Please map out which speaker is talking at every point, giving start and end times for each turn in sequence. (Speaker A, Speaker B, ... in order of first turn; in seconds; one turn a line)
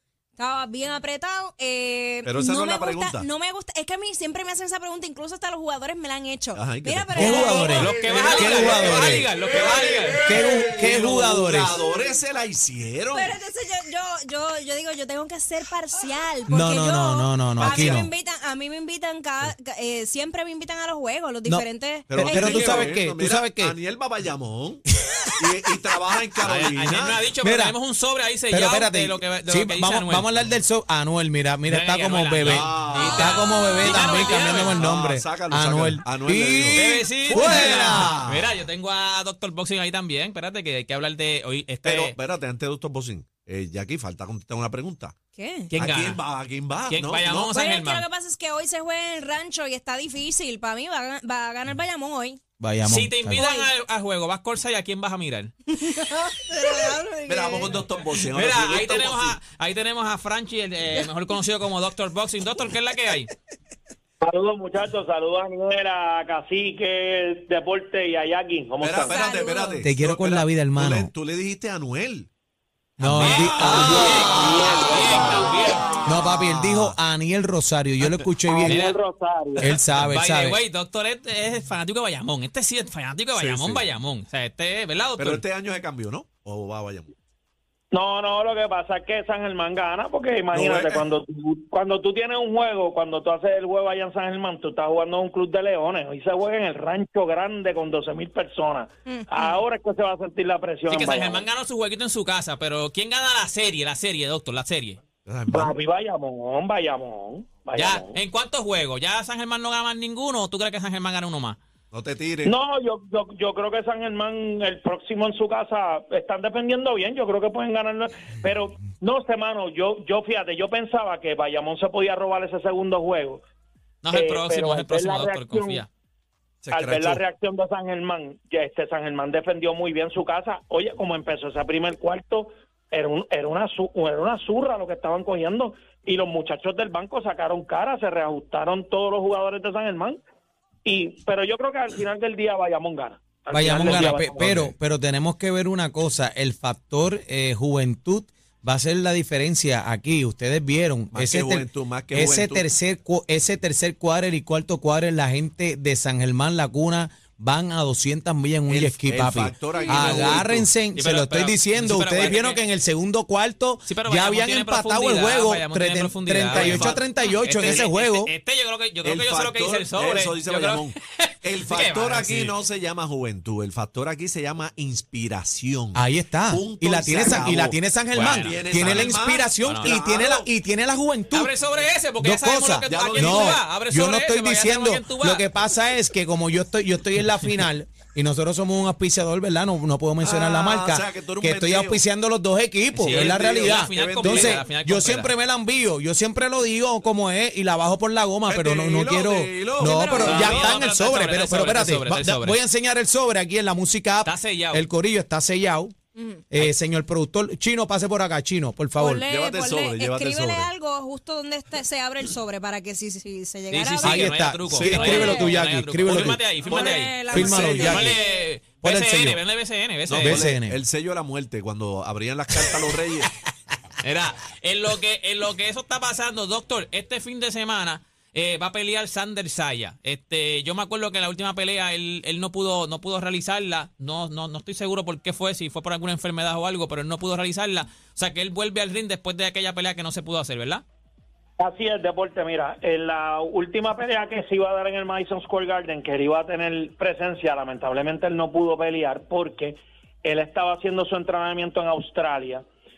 Speaker A: 0.4-8.4
Speaker B: 2.2-3.3
Speaker B: 6.5-13.4
Speaker C: 7.2-9.3
Speaker D: 7.7-10.3
Speaker C: 10.2-11.8
Speaker A: 11.8-12.2
Speaker A: 13.1-22.9
Speaker C: 16.5-18.1
Speaker B: 17.6-18.1
Speaker C: 21.4-23.8
Speaker B: 22.1-24.8
Speaker B: 25.4-27.2
Speaker D: 26.4-30.3
Speaker C: 27.4-27.8
Speaker C: 28.5-38.4
Speaker D: 31.7-34.9
Speaker B: 32.4-38.4
Speaker D: 36.7-42.2
Speaker B: 41.8-45.1
Speaker A: 45.4-45.7
Speaker D: 45.7-46.2
Speaker B: 45.7-47.5
Speaker D: 46.9-48.0
Speaker A: 47.5-52.4
Speaker C: 52.6-53.5
Speaker D: 52.8-55.6
Speaker A: 53.3-53.7
Speaker A: 55.7-57.8
Speaker B: 57.3-59.4
Speaker D: 58.0-63.3
Speaker E: 64.2-69.3
Speaker B: 68.8-72.3
Speaker A: 69.0-69.8
Speaker C: 69.8-71.1
Speaker C: 73.0-74.7
Speaker B: 73.0-74.5
Speaker D: 73.1-75.9
Speaker E: 73.6-75.5
Speaker C: 76.0-78.8
Speaker B: 76.1-77.0
Speaker E: 78.5-79.7
Speaker D: 78.7-79.0
Speaker C: 79.6-80.6
Speaker D: 80.0-85.4
Speaker B: 83.3-83.9
Speaker B: 85.2-87.2
Speaker E: 87.9-101.5
Speaker B: 90.5-91.0
Speaker A: 99.1-99.6
Speaker D: 100.9-105.0
Speaker B: 105.2-105.7
Speaker E: 105.5-108.2
Speaker D: 107.8-111.6
Speaker B: 111.9-112.5
Speaker E: 112.5-123.4
Speaker D: 124.0-125.9
Speaker E: 124.1-125.8
Speaker B: 126.6-127.2
Speaker E: 126.7-140.2
Speaker E: 140.8-144.5
Speaker C: 143.5-168.3
Speaker B: 144.4-144.7
Speaker B: 151.1-152.7
Speaker B: 158.7-160.7
Speaker D: 160.9-162.6
Speaker D: 163.9-172.6
Speaker B: 166.5-167.0
Speaker B: 167.6-167.9
Speaker B: 169.0-180.5
Speaker C: 175.9-181.5
Speaker D: 178.1-180.0
Speaker D: 181.3-185.5
Speaker C: 182.2-205.9
Speaker B: 182.8-183.6
Speaker B: 190.2-192.0
Speaker D: 192.9-195.3
Speaker B: 193.1-194.6
Speaker B: 198.5-200.8
Speaker A: 199.8-200.6
Speaker D: 200.2-202.6
Speaker D: 204.2-204.9
Speaker A: 206.2-206.4
Speaker C: 206.5-209.2
Speaker A: 209.0-214.3
Speaker B: 209.3-210.7
Speaker D: 213.7-220.5
Speaker C: 214.0-218.2
Speaker B: 214.7-215.4
Speaker A: 215.0-215.6
Speaker A: 216.6-218.4
Speaker B: 216.7-218.1
Speaker C: 218.8-219.4
Speaker B: 220.1-223.3
Speaker C: 220.2-220.8
Speaker D: 224.0-240.8
Speaker E: 241.6-252.6